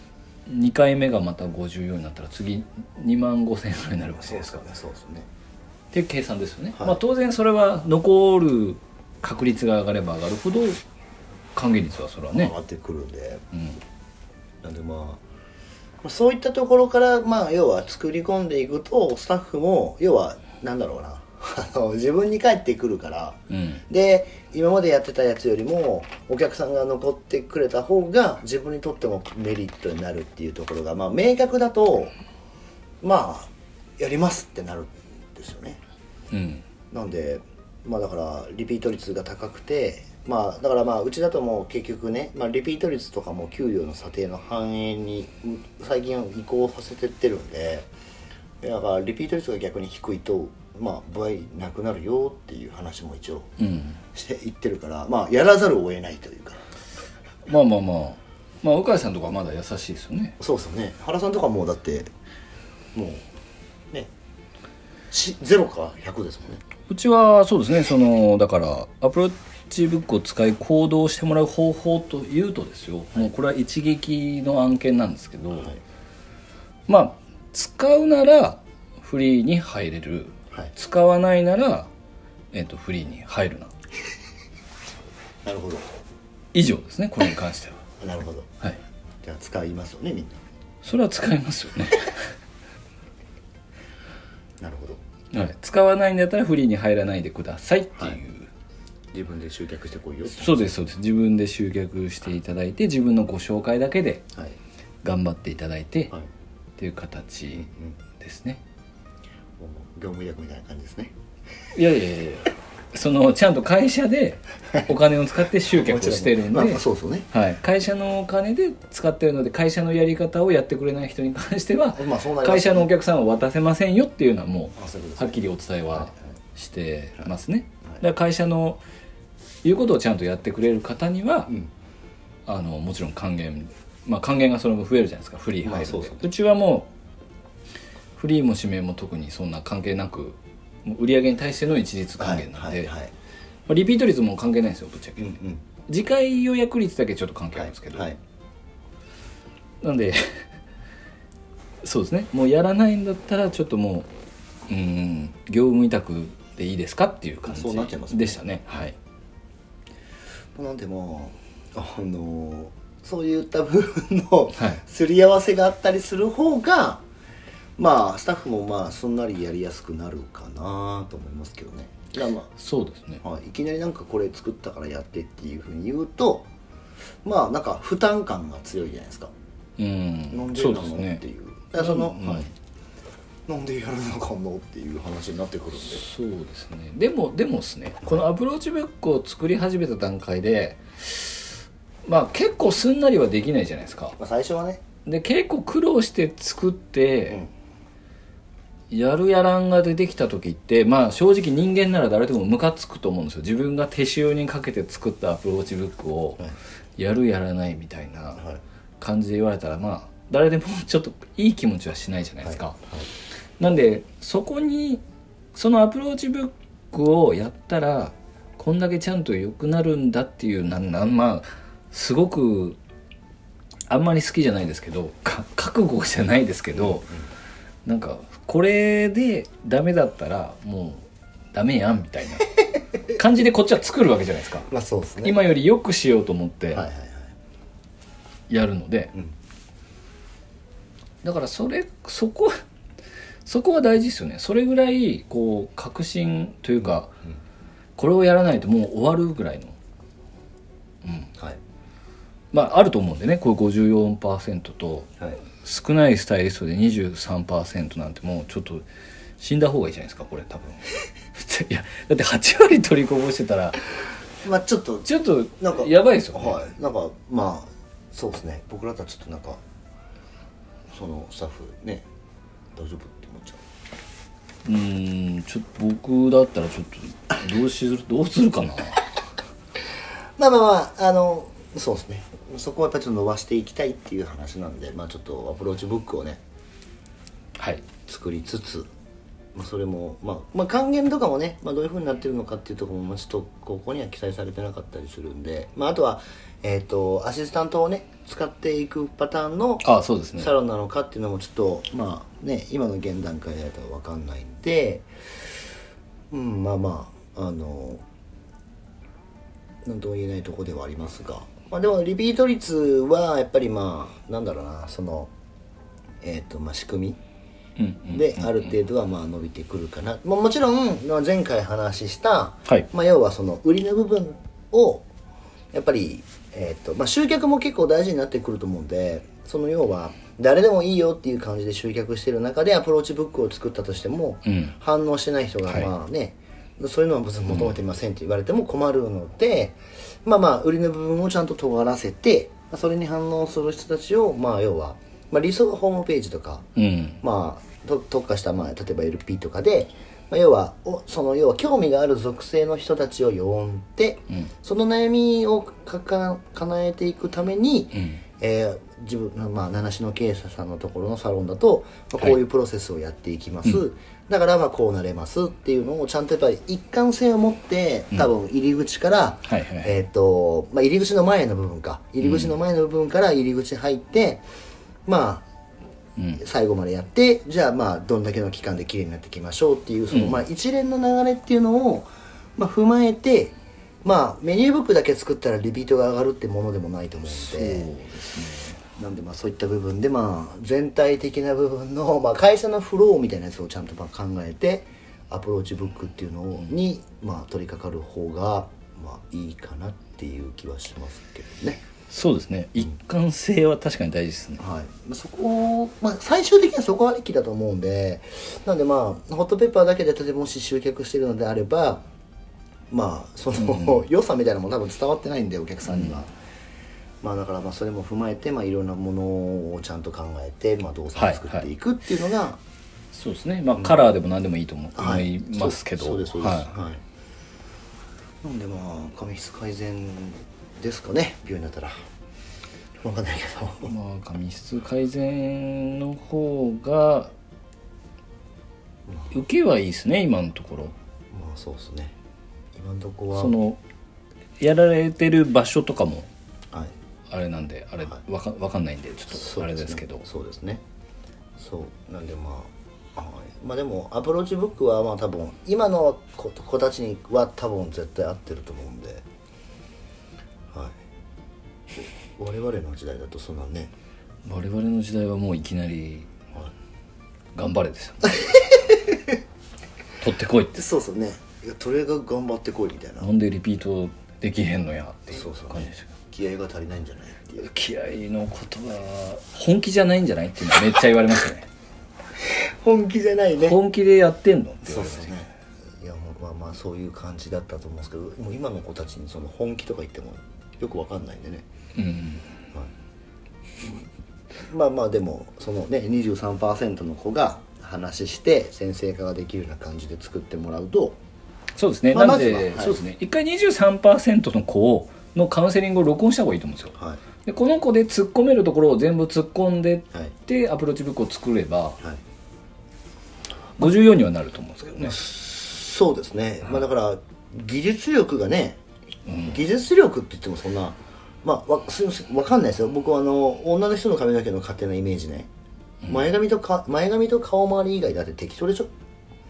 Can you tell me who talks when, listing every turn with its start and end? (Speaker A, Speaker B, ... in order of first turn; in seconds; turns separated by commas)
Speaker A: 0.5-4.6, Speaker B: 4.2-5.3, Speaker A: 5.9-10.8, Speaker A: 11.6-12.5, Speaker B: 12.3-13.4, Speaker A: 13.5-13.8, Speaker B: 14.6-15.2, Speaker B: 16.0-32.1, Speaker A: 23.5-23.8, Speaker B: 33.0-35.8, Speaker A: 36.3-36.6, Speaker B: 36.9-47.9, Speaker B: 48.6-53.5, Speaker A: 53.6-54.0, Speaker B: 54.1-56.6, Speaker A: 57.5-60.4, Speaker B: 60.4-62.1, Speaker B: 62.9-63.2, Speaker B: 65.1-66.6, Speaker A: 66.9-75.7, Speaker A: 76.9-81.9, Speaker A: 82.5-83.7, Speaker B: 85.4-85.8, Speaker A: 86.5-87.8, Speaker B: 88.0-88.5, Speaker B: 89.2-90.4, Speaker A: 90.8-92.2, Speaker B: 94.6-95.0, Speaker A: 95.3-98.5, Speaker B: 99.1-100.7, Speaker A: 100.3-104.2, Speaker A: 105.0-106.1, Speaker A: 106.8-108.6, Speaker B: 107.5-108.0, Speaker B: 109.6-111.1, Speaker A: 111.7-128.8, Speaker B: 115.7-117.3, Speaker B: 122.0-122.9, Speaker B: 124.8-126.1, Speaker A: 129.6-131.5, Speaker A: 132.4-136.9, Speaker B: 135.6-136.3, Speaker A: 138.2-142.9, Speaker B: 142.2-143.1, Speaker A: 143.7-145.3, Speaker B: 145.2-145.6, Speaker A: 145.9-148.1, Speaker B: 147.5-148.2, Speaker A: 149.8-150.4, Speaker A: 151.8-154.1, Speaker A: 154.7-158.9, Speaker B: 157.4-158.5, Speaker B: 160.5-167.0, Speaker A: 164.5-164.8, Speaker B: 167.8-172.5, Speaker A: 172.6-173.2, Speaker B: 173.2-176.5, Speaker B: 177.2-179.3, Speaker A: 179.8-181.2, Speaker B: 180.3-182.5, Speaker A: 181.7-182.5, Speaker B: 183.5-186.1, Speaker A: 185.8-194.2, Speaker B: 194.2-194.8, Speaker A: 195.1-197.4, Speaker A: 198.9-206.4, Speaker A: 207.0-208.4, Speaker A: 209.0-212.8, Speaker B: 212.4-213.1, Speaker A: 213.6-215.0, Speaker A: 215.5-222.8, Speaker A: 223.9-227.1, Speaker B: 226.7-227.3, Speaker A: 227.8-232.5, Speaker A: 233.1-234.7, Speaker B: 234.7-235.4, Speaker A: 235.2-236.8, Speaker B: 236.7-237.3, Speaker A: 238.5-239.1, Speaker A: 241.2-242.5, Speaker A: 243.4-247.1, Speaker A: 248.0-249.8, Speaker A: 251.0-251.3, Speaker A: 252.5-258.8, Speaker A: 259.4-263.8, Speaker B: 264.4-269.6, Speaker A: 265.1-266.6, Speaker B: 270.9-272.1, Speaker B: 272.8-273.6, Speaker A: 274.6-279.0, Speaker B: 280.4-286.4, Speaker A: 287.6-287.9, Speaker B: 288.1-288.9, Speaker B: 289.5-305.1, Speaker A: 299.8-300.5, Speaker B: 306.3-308.0, Speaker B: 309.8-315.3, Speaker B: 316.2-317.2, Speaker A: 317.8-318.6, Speaker B: 318.1-325.1, Speaker B: 325.7-346.7, Speaker A: 334.4-334.7, Speaker A: 337.5-337.7, Speaker A: 346.8-347.2, Speaker B: 347.2-374.4, Speaker A: 357.9-358.2, Speaker A: 369.5-369.9, Speaker A: 372.2-372.6, Speaker B: 375.1-375.4, Speaker B: 376.4-387.9, Speaker A: 380.1-380.4, Speaker A: 387.3-388.8, Speaker B: 388.9-401.8, Speaker A: 402.1-404.6, Speaker B: 404.6-412.0, Speaker B: 412.9-416.3, Speaker A: 413.5-414.0, Speaker A: 415.9-416.2, Speaker B: 417.2-422.6, Speaker A: 421.1-421.6, Speaker A: 423.1-426.7, Speaker B: 424.9-427.0, Speaker B: 428.4-431.9, Speaker B: 433.0-433.9, Speaker A: 433.8-437.3, Speaker A: 439.3-440.9, Speaker B: 441.3-442.1, Speaker B: 442.8-443.6, Speaker A: 443.3-443.8, Speaker A: 444.6-446.3, Speaker A: 447.3-450.2, Speaker B: 449.3-450.8, Speaker B: 451.6-459.2, Speaker B: 460.7-460.9, Speaker B: 462.4-463.9, Speaker A: 464.4-466.3, Speaker A: 467.5-468.6, Speaker A: 470.2-470.8, Speaker B: 470.7-473.3, Speaker A: 473.2-476.1, Speaker B: 475.3-477.7, Speaker A: 477.6-481.7, Speaker B: 482.4-483.8, Speaker A: 483.6-485.4, Speaker B: 484.9-491.6, Speaker A: 491.9-492.5, Speaker B: 494.6-501.2, Speaker A: 501.8-512.0, Speaker B: 502.1-503.0, Speaker B: 506.9-507.2, Speaker A: 513.8-515.1, Speaker B: 515.0-518.8, Speaker A: 519.3-519.5, Speaker B: 519.4-525.5, Speaker B: 526.0-528.9